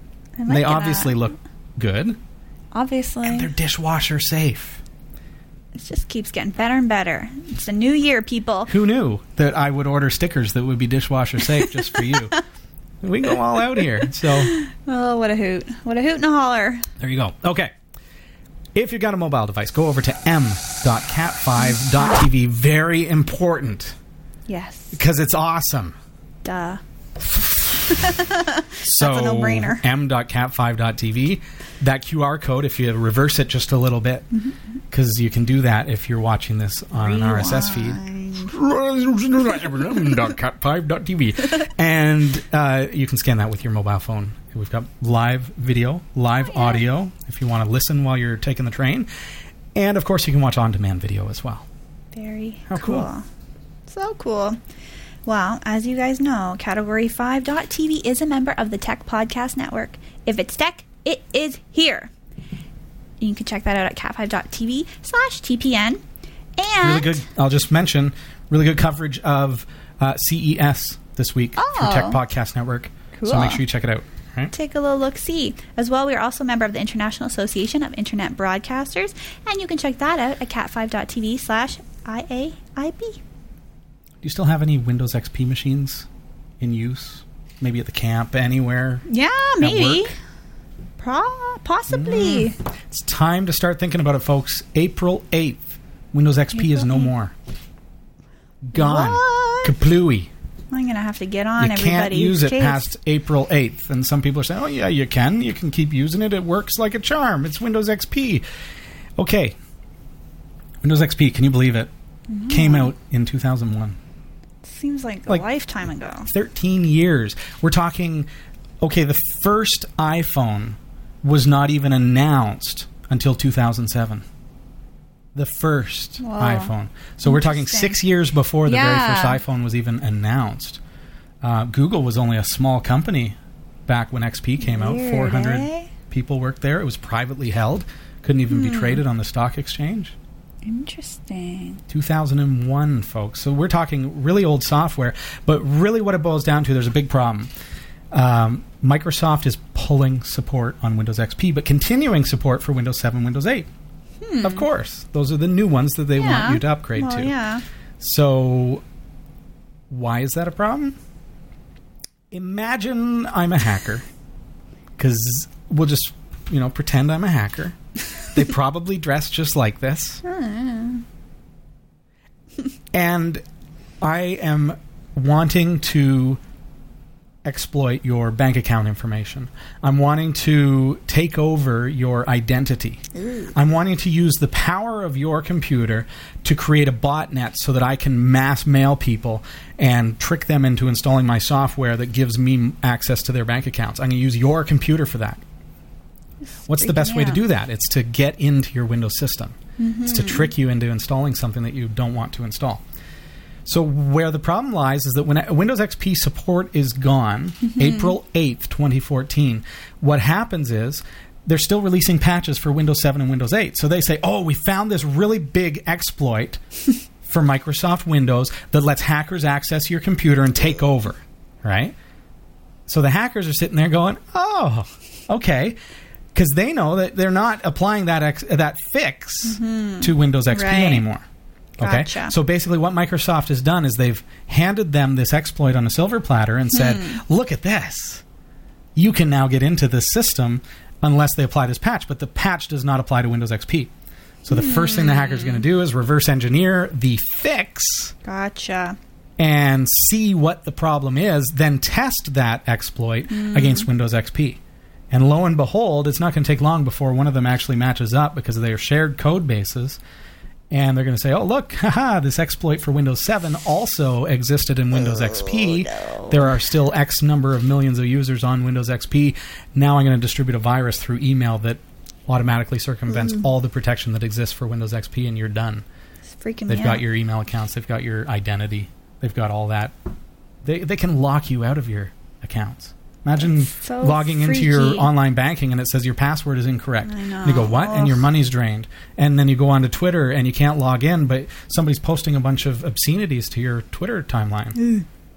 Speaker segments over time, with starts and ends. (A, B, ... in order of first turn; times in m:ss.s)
0:00.4-0:01.2 A
0:00.5-0:02.2 B
0:02.7-0:03.5 A
0:03.2-0:04.8 B
0:05.7-0:08.7 A
0:08.7-0:12.4 B
0:13.0-0:14.5 B
0:14.2-0:16.9 A
0:17.0-0:17.7 B
0:18.7-0:24.0 B
0:24.5-0:24.9 A
0:24.9-0:26.0 B
0:26.4-0:26.8 A
0:27.3-0:27.9 B
0:27.9-0:29.8 A
0:28.8-0:34.3 B
0:34.9-0:49.1 B
0:37.0-0:38.5 A
0:46.4-0:46.8 A
0:49.7-0:51.7 B
0:52.1-0:53.2 A
0:52.7-0:53.1 B
0:53.9-0:54.6 A
0:55.2-1:02.1 A
1:03.2-1:06.0 A
1:06.6-1:07.2 A
1:06.8-1:14.5 B
1:11.6-1:12.2 A
1:13.1-1:13.6 A
1:14.5-1:23.2 A
1:24.2-1:26.1 B
1:26.6-1:29.0 B
1:29.1-1:30.1 A
1:29.6-1:30.1 B
1:31.0-1:32.6 A
1:31.9-1:37.3 B
1:36.5-1:37.1 A
1:38.6-1:40.3 B
1:38.7-1:39.7 A
1:40.7-1:42.9 A
1:41.6-1:48.4 B
1:49.2-1:49.6 B
1:50.8-1:51.9 B
1:52.3-1:52.9 A
1:52.5-1:54.0 B
1:54.6-1:56.3 A
1:56.2-1:58.3 B
1:58.8-2:04.2 B
2:05.3-2:10.8 B
2:06.2-2:06.7 A
2:07.2-2:08.0 A
2:08.6-2:09.4 A
2:11.4-2:13.4 B
2:13.9-2:20.2 B
2:14.6-2:15.9 A
2:18.5-2:19.0 A
2:20.6-2:21.8 A
2:21.9-2:27.5 B
2:28.1-2:33.7 B
2:34.2-2:34.6 A
2:34.4-2:37.3 B
2:36.2-2:37.6 A
2:38.0-2:38.8 B
2:39.9-2:41.0 B
2:42.3-2:44.0 B
2:45.0-2:50.2 B
2:50.2-2:51.0 A
2:52.9-2:53.4 B
2:54.0-2:56.4 B
2:57.4-3:15.4 B
3:03.1-3:03.5 A
3:16.7-3:22.8 B
3:16.7-3:17.4 A
3:19.8-3:20.5 A
3:23.6-3:36.6 B
3:27.7-3:28.2 A
3:37.2-3:41.9 B
3:42.9-3:45.8 B
3:46.3-3:51.2 B
3:49.4-3:51.0 A
3:51.8-3:58.2 B
3:51.8-3:52.3 A
3:56.7-3:57.2 A
3:59.0-4:03.9 B
4:04.4-4:08.1 B
4:04.5-4:05.6 A
4:08.2-4:09.0 A
4:09.4-4:14.6 B
4:13.3-4:13.9 A
4:15.1-4:20.0 B
4:20.7-4:35.8 B
4:25.1-4:26.5 A
4:33.1-4:33.4 A
4:36.3-4:37.0 A
4:36.7-4:39.9 B
4:40.6-4:54.8 B
4:43.4-4:45.1 A
4:47.0-4:48.3 A